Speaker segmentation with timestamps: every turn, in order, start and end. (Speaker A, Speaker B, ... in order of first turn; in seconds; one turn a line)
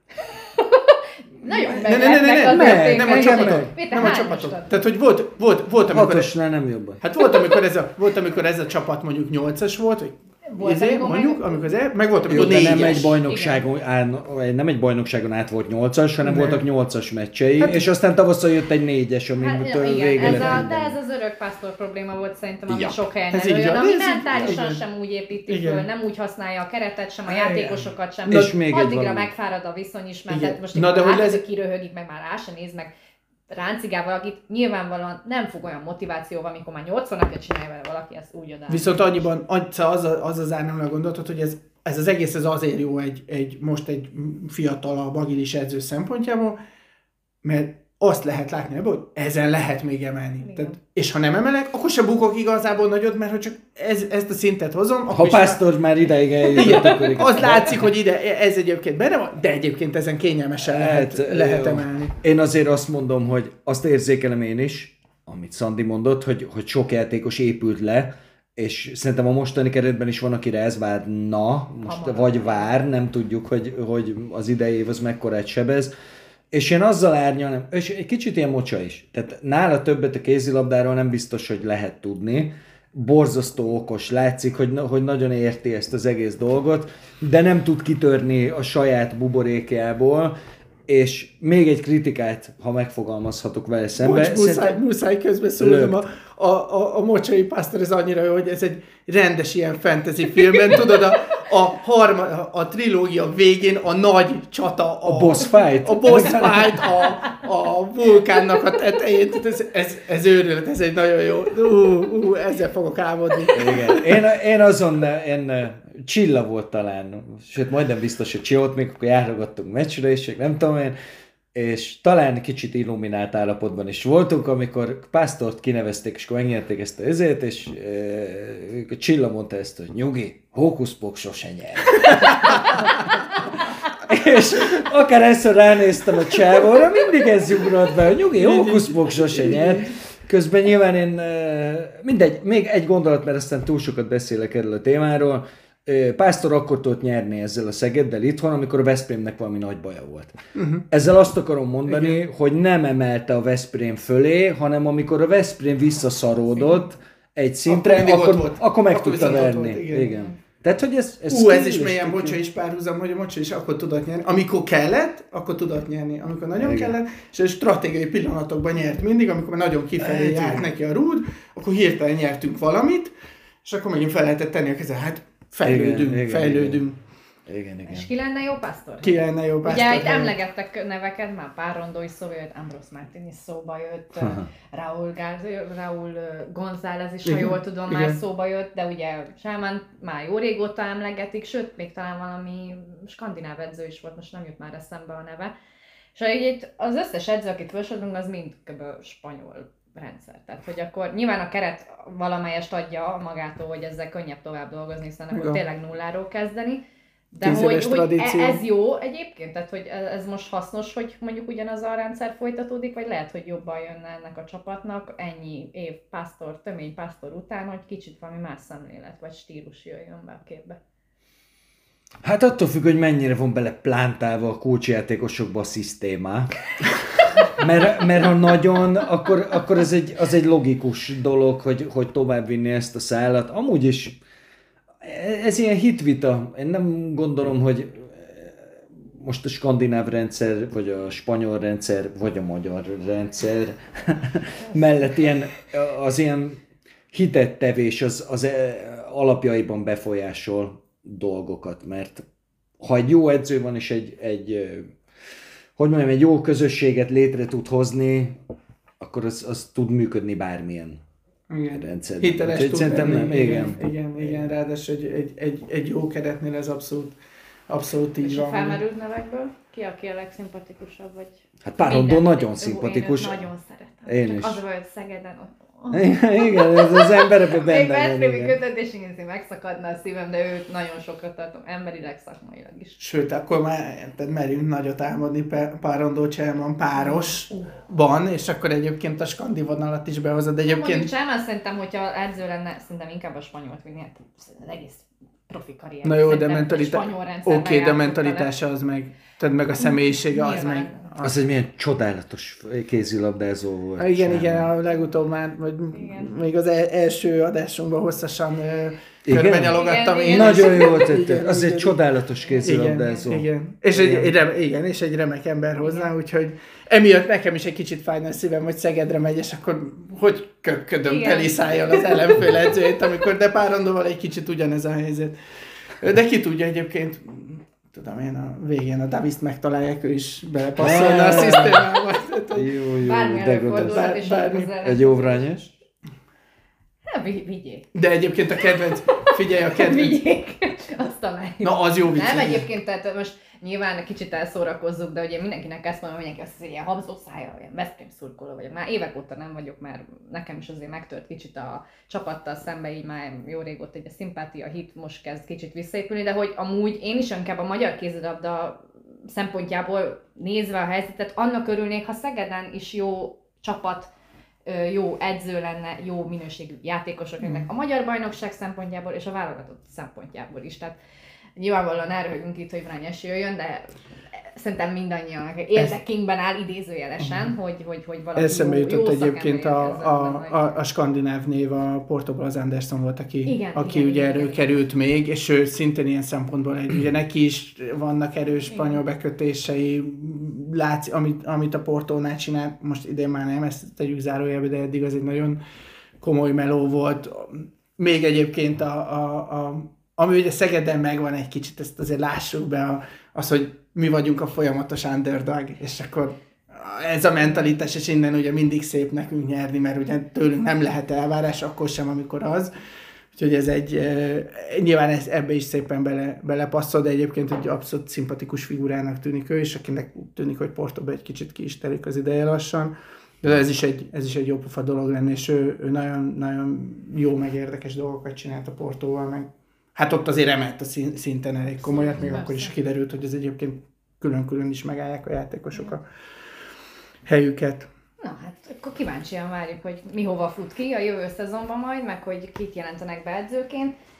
Speaker A: 0.2-4.7
Speaker B: 1.4-6.3
Speaker C: 2.3-3.7
Speaker C: 5.9-7.0
Speaker B: 7.0-13.2
Speaker A: 7.2-7.5
Speaker A: 10.4-11.7
Speaker A: 12.2-13.6
Speaker C: 12.3-20.9
Speaker B: 16.2-16.6
Speaker B: 17.6-17.9
Speaker A: 19.4-32.9
Speaker B: 20.2-20.7
Speaker C: 22.7-23.0
Speaker B: 23.3-24.8
Speaker B: 25.5-25.9
Speaker B: 27.3-27.9
Speaker C: 28.3-29.3
Speaker B: 30.3-31.4
Speaker A: 33.5-39.3
Speaker B: 38.7-46.6
Speaker B: 47.4-55.6
Speaker A: 50.4-50.8
Speaker C: 55.1-57.9
Speaker A: 56.5-57.1
Speaker B: 56.5-62.1
Speaker C: 60.7-75.9
Speaker A: 71.8-72.8
Speaker C: 76.5-90.3
Speaker C: 90.9-94.8
Speaker B: 94.0-113.9
Speaker C: 95.6-96.0
Speaker C: 105.0-107.0
Speaker C: 113.5-121.0
Speaker C: 121.5-150.3
Speaker B: 138.3-139.9
Speaker B: 150.5-150.8
Speaker C: 150.9-162.4
Speaker B: 151.8-152.2
Speaker B: 157.7-160.2
Speaker B: 161.3-177.0
Speaker C: 166.6-166.9
Speaker C: 170.0-170.7
Speaker C: 175.6-176.8
Speaker C: 177.5-178.1
Speaker A: 177.8-195.5
Speaker B: 179.0-180.3
Speaker C: 184.2-184.5
Speaker B: 187.2-188.2
Speaker A: 196.1-220.8
Speaker B: 205.3-205.6
Speaker B: 207.4-208.6
Speaker C: 222.2-234.2
Speaker C: 235.0-246.6
Speaker C: 247.1-252.2
Speaker C: 252.8-254.9
Speaker C: 255.8-258.4
Speaker C: 259.0-261.0
Speaker B: 261.5-267.2
Speaker C: 261.7-264.2
Speaker B: 267.7-268.8
Speaker A: 268.2-283.0
Speaker C: 271.6-273.5
Speaker C: 274.1-274.6
Speaker C: 275.9-278.6
Speaker B: 283.0-291.1
Speaker A: 287.0-287.6
Speaker A: 290.6-298.5
Speaker B: 296.0-301.4
Speaker A: 299.8-301.1
Speaker C: 301.2-304.7
Speaker B: 304.0-311.9
Speaker A: 305.9-306.3
Speaker C: 309.2-314.3
Speaker A: 309.7-311.2
Speaker A: 312.4-313.3
Speaker B: 312.6-325.4
Speaker A: 315.8-316.1
Speaker A: 321.0-322.5
Speaker B: 326.0-332.7
Speaker C: 330.8-331.9
Speaker C: 332.5-334.2
Speaker A: 333.0-335.7
Speaker B: 333.7-334.7
Speaker C: 334.8-335.7
Speaker A: 337.1-337.9
Speaker B: 337.9-340.2
Speaker A: 339.1-364.1
Speaker B: 341.6-342.7
Speaker A: 364.6-371.0
Speaker B: 367.4-367.7
Speaker A: 371.6-380.8
Speaker B: 377.2-377.5
Speaker B: 378.4-395.6
Speaker A: 383.4-384.7
Speaker A: 388.7-389.0
Speaker B: 396.2-412.7
Speaker B: 413.3-436.0
Speaker A: 431.8-432.7
Speaker B: 437.2-437.9
Speaker A: 438.2-443.9